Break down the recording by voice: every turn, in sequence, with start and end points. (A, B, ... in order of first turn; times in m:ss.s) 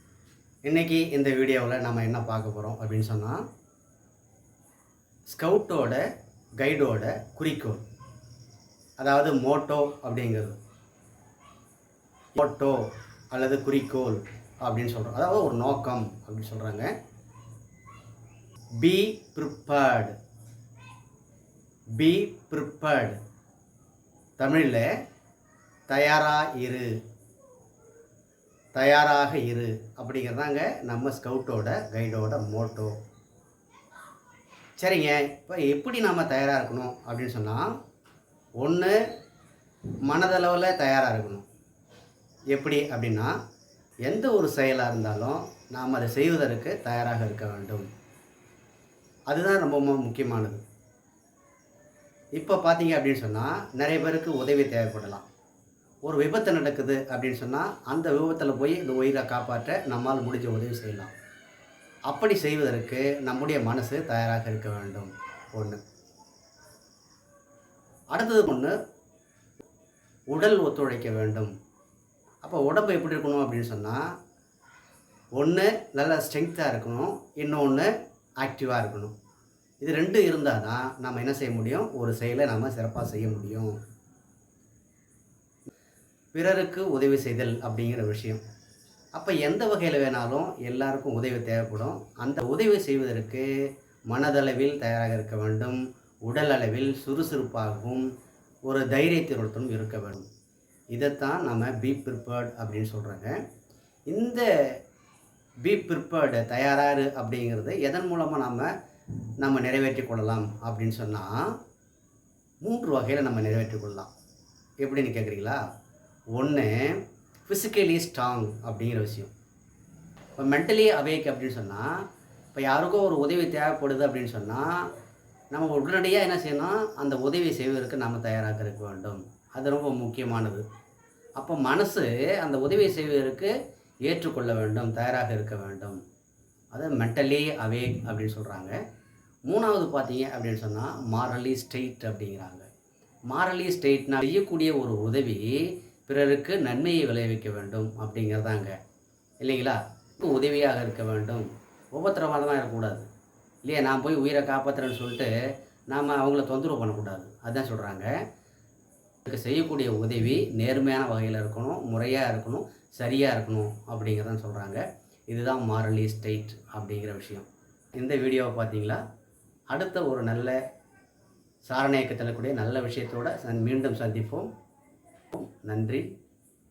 0:00.6-0:03.4 A
0:05.3-0:06.0 A
0:06.6-0:07.8 A
0:09.0-0:10.6 A
0:12.3-0:16.9 A
0:18.8-0:20.2 A
0:22.0-0:23.2 A
0:24.4-0:24.9 A
0:25.9-0:26.9 A
0:28.7-0:33.0 A
0:34.8-0:37.7 A
0:38.6-0:39.0 A
0:40.0-0:41.4 A
0:42.5-0:43.3 A
0:44.0-0:47.8 A
0:49.3-0:50.6 A
0:52.3-0:55.2 A
0:56.0-1:01.1 A
1:02.1-1:05.8 A
1:08.1-1:08.7 A
1:10.3-1:11.5 A
1:12.4-1:14.0 A
1:15.4-1:17.9 A
1:18.4-1:19.1 A
1:19.8-1:23.8 A
1:26.3-1:28.4 A
1:29.1-1:33.5 A
1:34.1-1:38.0 A
1:38.6-1:40.2 A
1:40.9-1:43.4 A
1:44.1-1:44.5 A
1:45.6-1:48.7 A
1:49.4-1:51.5 A
1:52.6-1:54.1 A
1:54.8-1:55.6 A
1:56.3-1:59.3 A
2:00.4-2:01.9 A
2:02.5-2:04.9 A
2:05.5-2:10.6 A
2:11.4-2:16.0 A
2:16.7-2:18.8 A
2:19.4-2:22.7 A
2:23.3-2:28.8 A
2:29.4-2:33.0 A
2:33.6-2:35.3 A
2:35.9-2:38.1 A
2:39.2-2:49.0 A
2:49.7-2:50.6 A
2:51.6-2:54.5 A
2:55.3-2:56.1 A